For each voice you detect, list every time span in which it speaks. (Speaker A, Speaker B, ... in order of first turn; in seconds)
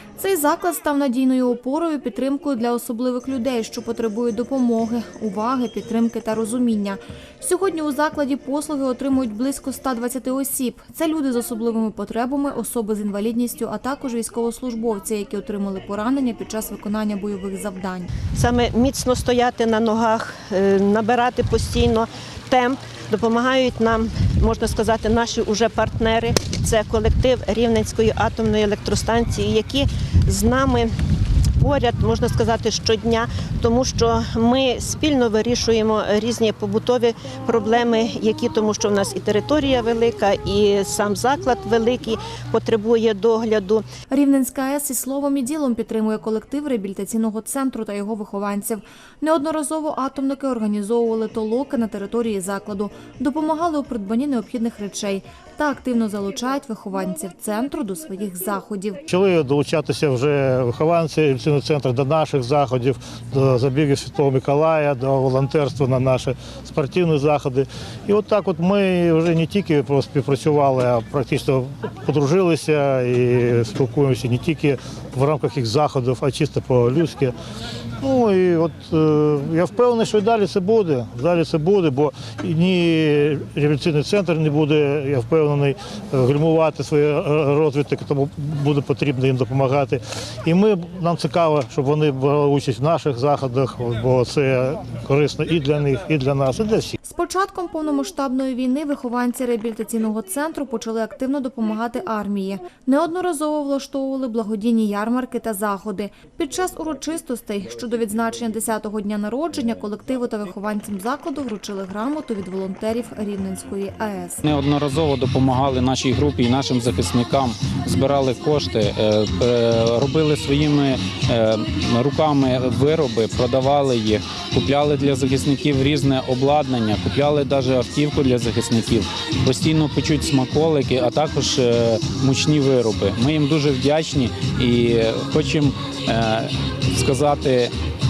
Speaker A: 0.2-18.1, 44.1-59.0, 97.0-114.4
Speaker B: 18.3-30.9, 31.6-43.9
Speaker C: 59.1-77.3, 78.0-97.0
Speaker D: 114.4-137.7